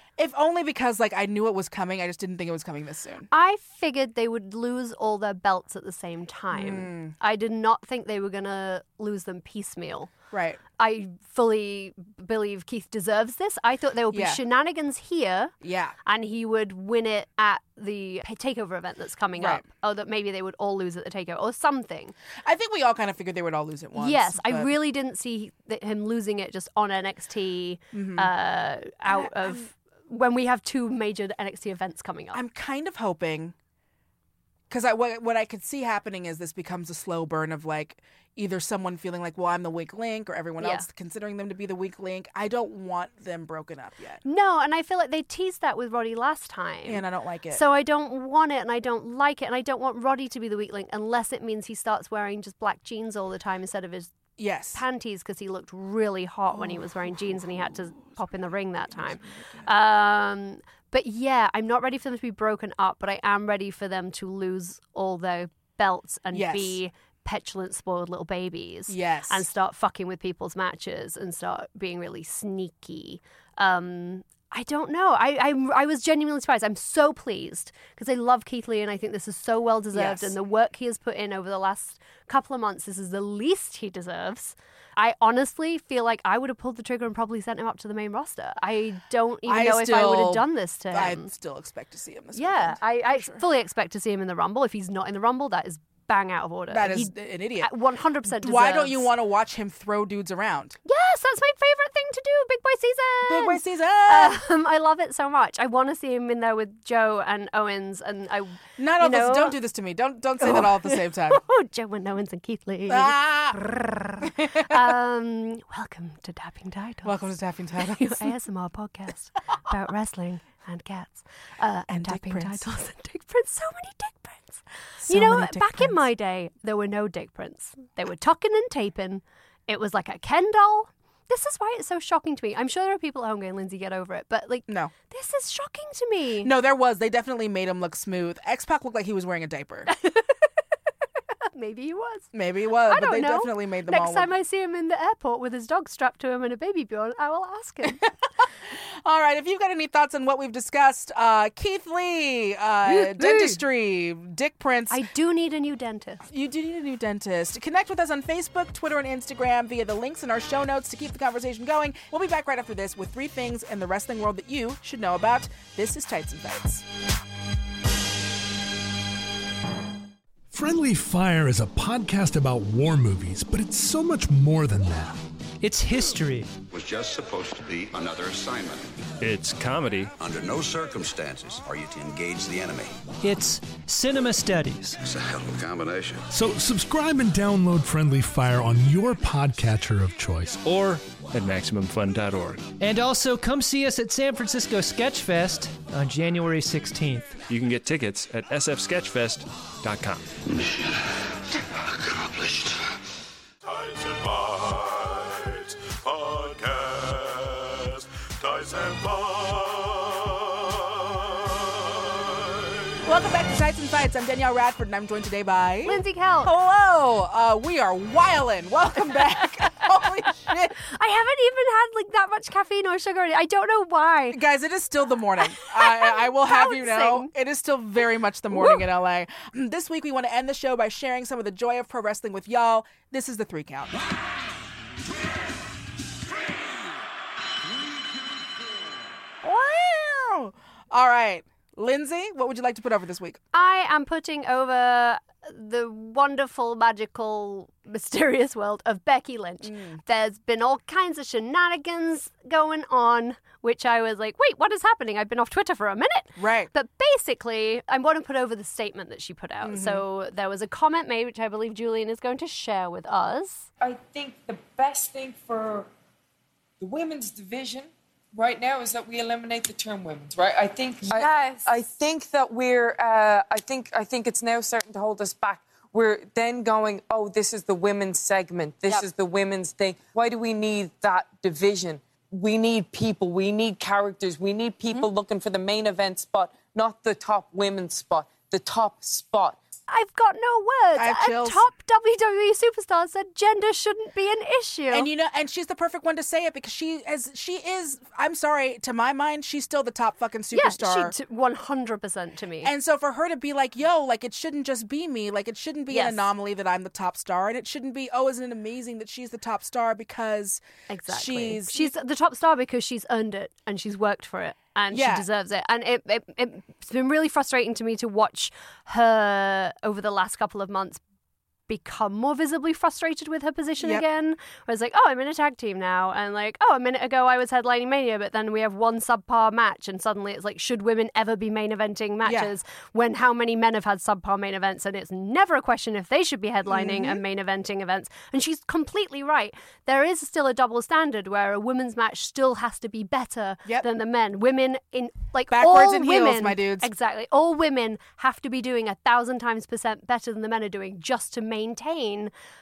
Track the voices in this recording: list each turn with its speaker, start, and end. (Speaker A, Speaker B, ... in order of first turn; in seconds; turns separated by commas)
Speaker A: 0.2-3.3, Speaker B: 3.3-10.1, Speaker A: 6.5-7.1, Speaker A: 10.3-10.6, Speaker B: 10.8-15.5, Speaker A: 14.1-14.4, Speaker A: 15.6-15.9, Speaker B: 16.1-22.1, Speaker A: 19.4-19.6, Speaker A: 22.4-24.7, Speaker B: 24.0-32.4, Speaker A: 27.9-28.3, Speaker A: 29.1-29.6, Speaker A: 32.3-33.5, Speaker A: 34.7-44.2, Speaker B: 40.6-40.9, Speaker B: 44.2-54.2, Speaker A: 46.9-47.6, Speaker A: 54.4-54.8, Speaker B: 54.7-91.3, Speaker A: 56.5-58.2, Speaker A: 58.9-59.7, Speaker A: 66.3-66.8, Speaker A: 68.9-69.5, Speaker A: 79.9-80.3, Speaker A: 89.5-93.4, Speaker B: 92.3-99.1, Speaker A: 96.7-97.7, Speaker A: 98.2-100.8, Speaker B: 100.8-109.6, Speaker A: 103.2-104.4, Speaker A: 108.8-111.4, Speaker B: 110.4-136.5, Speaker A: 112.9-113.6, Speaker A: 114.2-114.9, Speaker A: 117.0-118.3, Speaker A: 121.9-122.7, Speaker A: 125.0-126.0, Speaker A: 134.7-134.9, Speaker A: 136.4-139.9, Speaker B: 139.9-140.4, Speaker B: 141.5-142.3, Speaker A: 142.3-144.3, Speaker B: 142.9-148.1, Speaker A: 149.1-155.0, Speaker B: 152.9-153.6, Speaker B: 154.9-156.2, Speaker A: 156.3-166.8, Speaker C: 170.5-175.2, Speaker D: 175.6-176.5, Speaker E: 176.7-179.0, Speaker F: 179.2-180.1, Speaker E: 180.2-182.9, Speaker D: 183.2-185.0, Speaker E: 185.0-186.3, Speaker C: 186.3-190.7, Speaker F: 190.6-192.7, Speaker D: 192.8-197.4, Speaker F: 197.5-200.3, Speaker E: 202.0-202.7, Speaker G: 203.6-213.1, Speaker A: 213.1-220.8, Speaker B: 215.8-216.5, Speaker B: 220.8-224.4, Speaker A: 224.3-234.0, Speaker B: 225.5-227.3, Speaker B: 228.5-228.8, Speaker A: 239.4-243.4, Speaker B: 243.5-263.7, Speaker A: 249.6-250.0, Speaker A: 256.4-256.7, Speaker A: 259.6-260.0, Speaker H: 263.8-265.9, Speaker H: 266.8-289.6, Speaker B: 289.9-295.1, Speaker A: 290.9-291.6, Speaker A: 294.9-301.1, Speaker B: 300.5-302.7, Speaker A: 302.6-311.9, Speaker B: 305.9-306.3, Speaker B: 310.9-321.0, Speaker A: 314.9-315.3, Speaker B: 321.7-352.3, Speaker A: 332.2-332.5, Speaker A: 336.7-337.2, Speaker A: 345.5-346.9